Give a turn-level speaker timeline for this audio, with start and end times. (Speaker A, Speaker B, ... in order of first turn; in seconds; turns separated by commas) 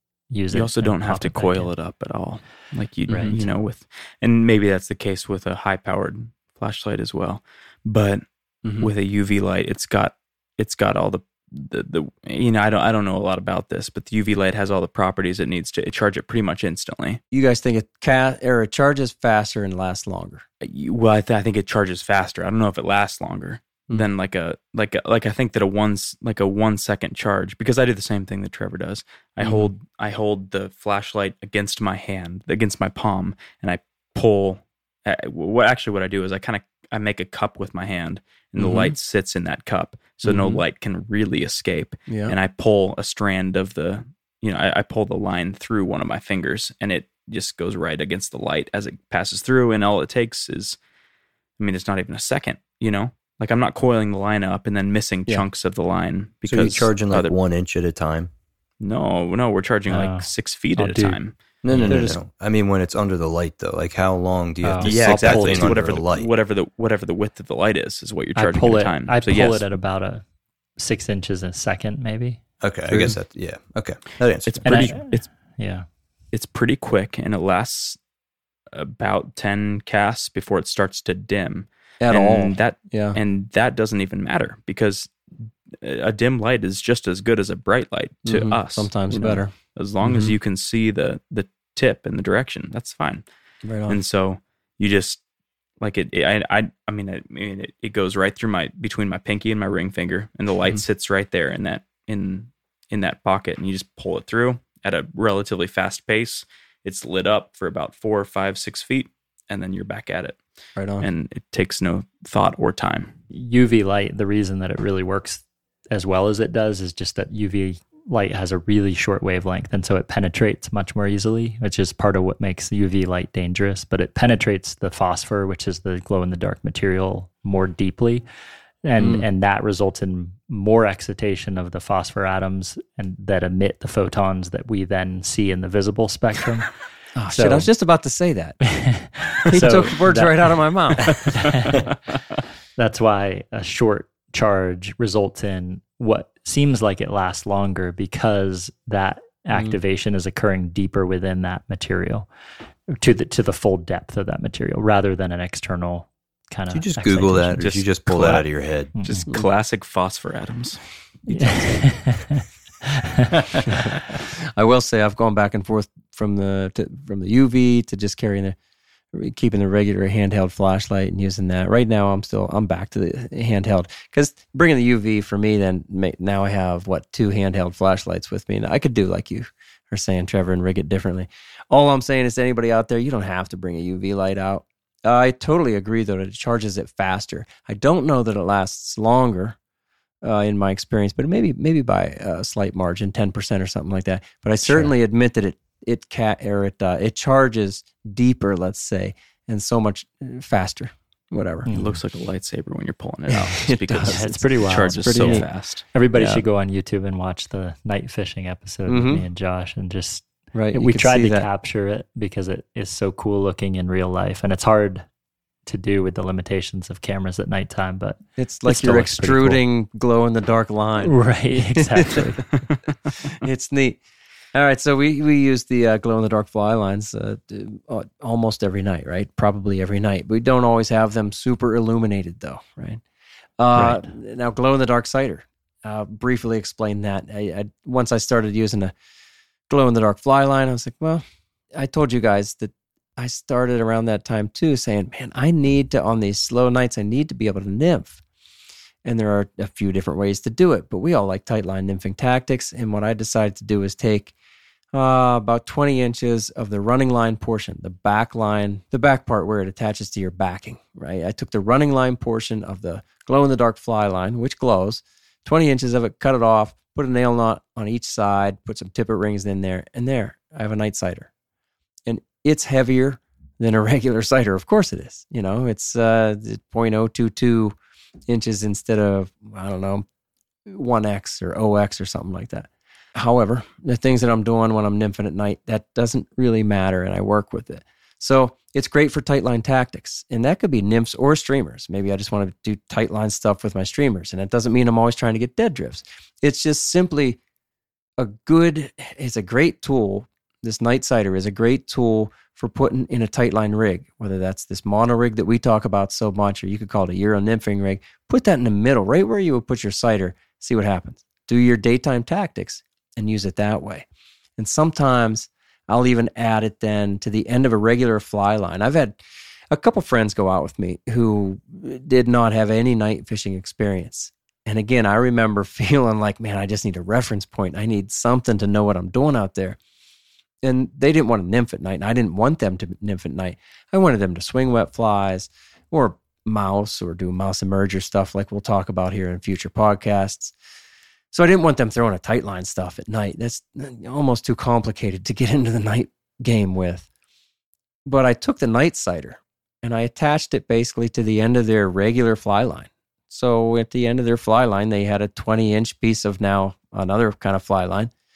Speaker A: 0.3-1.7, Speaker B: 0.5-17.2, Speaker C: 3.1-3.4, Speaker A: 3.1-3.4, Speaker C: 8.6-8.9, Speaker C: 17.3-20.4, Speaker B: 20.6-50.8, Speaker C: 29.4-29.7, Speaker C: 38.6-39.0, Speaker C: 40.2-40.6, Speaker C: 42.1-42.4, Speaker B: 51.6-57.4, Speaker D: 56.5-58.3, Speaker B: 58.8-61.3, Speaker A: 59.9-62.0, Speaker D: 61.6-66.3, Speaker C: 61.8-62.2, Speaker A: 64.6-65.8, Speaker B: 64.8-69.7, Speaker A: 68.4-70.2, Speaker A: 70.8-72.4, Speaker D: 72.6-74.9, Speaker C: 72.9-73.2, Speaker B: 74.5-75.3, Speaker A: 74.7-75.9, Speaker B: 76.3-78.0, Speaker B: 78.7-93.2, Speaker C: 82.0-83.2, Speaker C: 88.2-90.3, Speaker C: 93.6-94.0, Speaker B: 93.9-95.2, Speaker B: 95.8-110.4, Speaker C: 110.8-111.1, Speaker B: 111.0-113.2, Speaker A: 113.3-128.2, Speaker A: 128.8-137.7, Speaker C: 129.0-129.3, Speaker C: 137.2-138.6, Speaker A: 138.7-142.0, Speaker C: 139.5-141.2, Speaker A: 142.8-152.3, Speaker C: 149.5-149.8, Speaker A: 153.0-159.3, Speaker D: 156.7-159.0, Speaker B: 157.6-160.8, Speaker C: 161.3-161.8, Speaker A: 161.3-163.9, Speaker C: 164.5-168.6, Speaker C: 169.1-189.6, Speaker C: 190.2-201.7, Speaker A: 194.6-194.9, Speaker A: 201.7-202.0, Speaker B: 201.7-205.9, Speaker C: 203.3-205.5, Speaker A: 204.1-215.1, Speaker C: 206.1-206.4, Speaker C: 208.9-209.2, Speaker C: 210.5-211.5, Speaker A: 215.7-219.6, Speaker C: 218.4-222.4, Speaker A: 221.0-222.7, Speaker C: 223.3-224.0, Speaker C: 224.5-233.0, Speaker C: 233.6-238.9, Speaker A: 233.8-234.1, Speaker C: 239.7-241.2, Speaker C: 241.8-248.2, Speaker C: 249.0-254.3, Speaker C: 254.9-271.3, Speaker C: 272.1-277.8, Speaker C: 278.3-280.1, Speaker C: 280.7-297.4, Speaker C: 298.2-314.1, Speaker C: 314.6-329.8, Speaker C: 330.6-340.5, Speaker C: 341.3-347.1, Speaker C: 348.1-358.1